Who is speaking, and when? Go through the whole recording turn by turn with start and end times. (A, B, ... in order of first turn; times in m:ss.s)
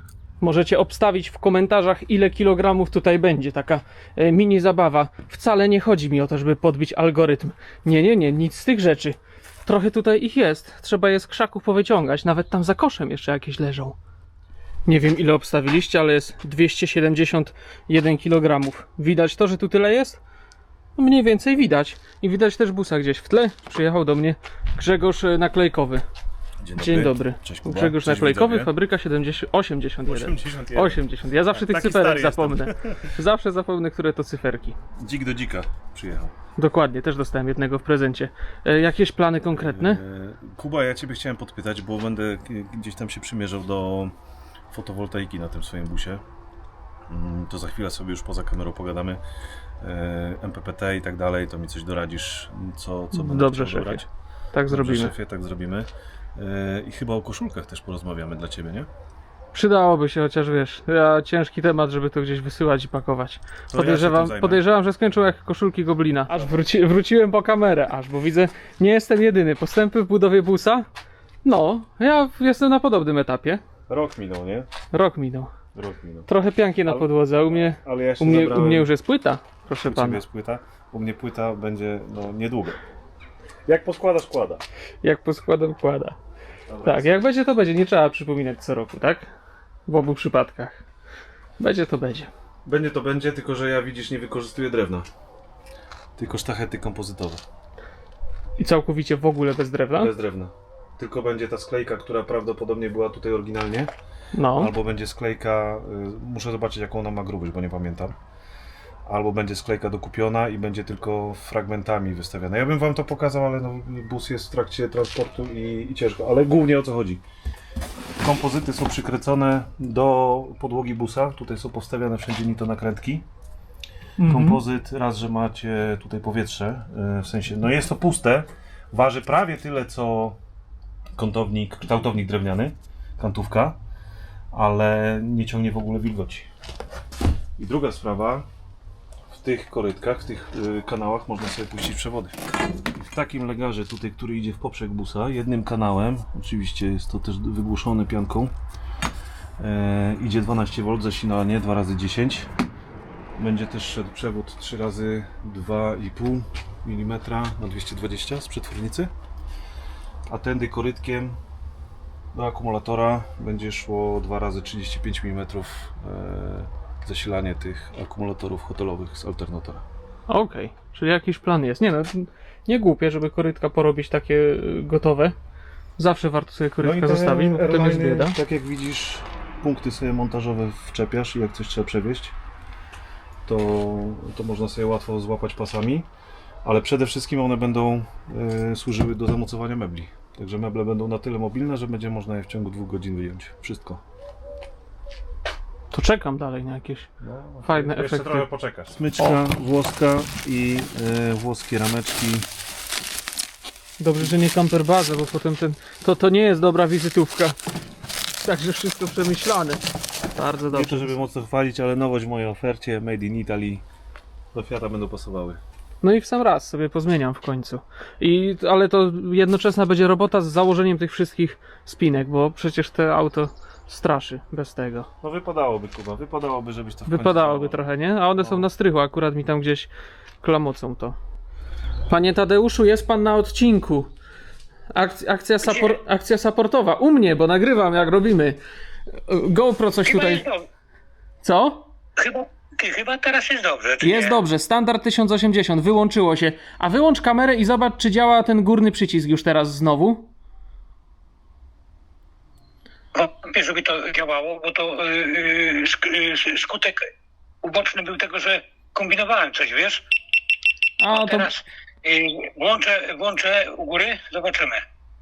0:00.4-0:14.0 A
0:14.8-0:20.2 A
0:21.0-0:26.0 A
0:26.6-0:28.7 B
0:26.8-0:34.8 A
0:30.0-0:33.0 B
0:35.0-0:36.3 B
0:36.6-0:40.0 A
0:39.5-0:44.1 B
0:44.7-0:46.2 B
0:47.1-0:49.2 B
0:49.8-0:54.1 B
0:53.1-0:55.1 A
0:54.7-0:58.9 B
0:59.5-1:10.9 A
1:03.7-1:04.6 B
1:11.4-1:13.6 A
1:13.9-1:14.7 B
1:14.9-1:15.5 A
1:15.7-1:16.3 B
1:16.3-1:20.2 A
1:16.8-1:18.9 B
1:19.8-1:22.8 B
1:23.6-1:24.6 B
1:25.0-1:26.2 A
1:26.7-1:27.2 B
1:26.8-1:29.3 A
1:29.9-1:30.8 A
1:31.6-1:32.3 A
1:32.6-1:35.0 B
1:36.2-1:37.4 B
1:38.6-1:40.1 A
1:40.0-1:43.9 B
1:44.3-1:44.7 A
1:44.5-1:48.2 B
1:49.0-1:57.2 B
1:58.2-2:03.2 B
2:04.2-2:04.6 A
2:04.2-2:10.4 B
2:11.2-2:13.8 B
2:14.5-2:16.5 B
2:17.6-2:18.4 B
2:19.3-2:22.4 B
2:22.9-2:28.5 B
2:29.6-2:32.5 B
2:33.4-2:39.1 B
2:40.3-2:41.4 B
2:42.3-2:49.8 B
2:50.3-2:55.3 A
2:56.0-2:58.4 A
2:56.8-3:02.3 B
3:03.4-3:06.1 B
3:06.6-3:14.0 B
3:15.9-3:17.1 A
3:17.2-3:22.5 B
3:17.6-3:18.5 A
3:24.0-3:27.6 A
3:28.4-3:29.8 A
3:30.3-3:31.2 A
3:30.7-3:33.8 B
3:34.5-3:35.6 B
3:36.0-3:45.1 A
3:45.2-3:47.8 B
3:47.1-3:49.9 A
3:48.4-3:48.7 B
3:50.4-3:51.2 A
3:52.1-3:54.1 A
3:54.9-3:58.6 A
3:59.3-4:00.4 A
4:00.0-4:00.6 C
4:01.4-4:01.9 A
4:02.2-4:04.4 C
4:04.0-4:10.3 A
4:13.1-4:17.1 C
4:17.6-4:20.0 C
4:21.0-4:21.5 A
4:21.1-4:24.8 C